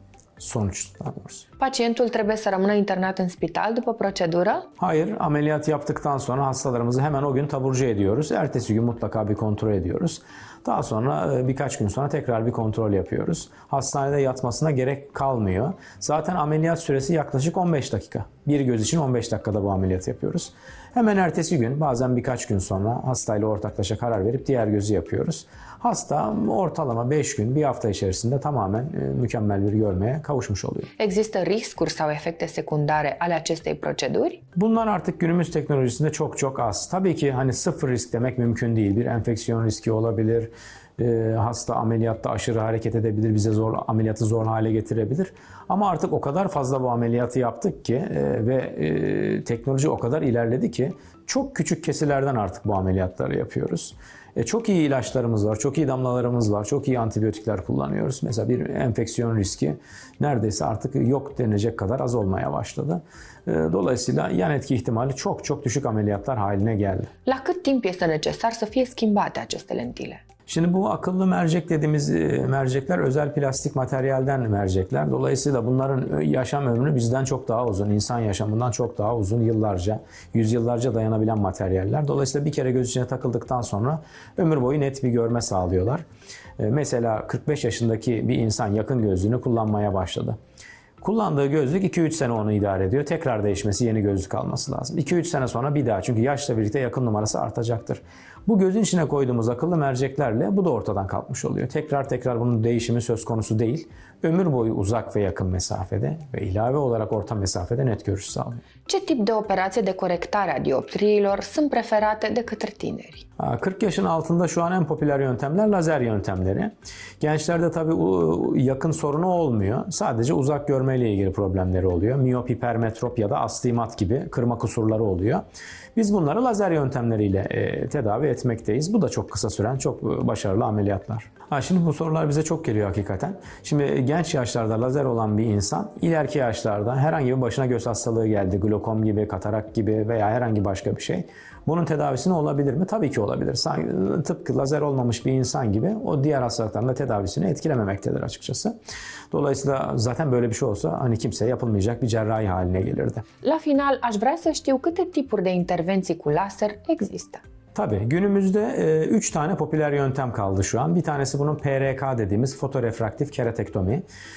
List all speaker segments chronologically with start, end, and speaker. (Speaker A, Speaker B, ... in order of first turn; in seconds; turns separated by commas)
Speaker A: 0.4-1.5, Speaker B: 1.6-4.7, Speaker A: 4.8-30.9, Speaker B: 31.0-34.4, Speaker A: 34.6-67.1, Speaker B: 67.3-70.2, Speaker A: 70.5-86.1, Speaker A: 86.6-90.4, Speaker A: 91.0-108.6, Speaker B: 108.9-113.2, Speaker A: 113.4-125.4, Speaker A: 126.0-148.8, Speaker A: 149.3-153.2, Speaker B: 153.4-157.4, Speaker A: 157.8-164.0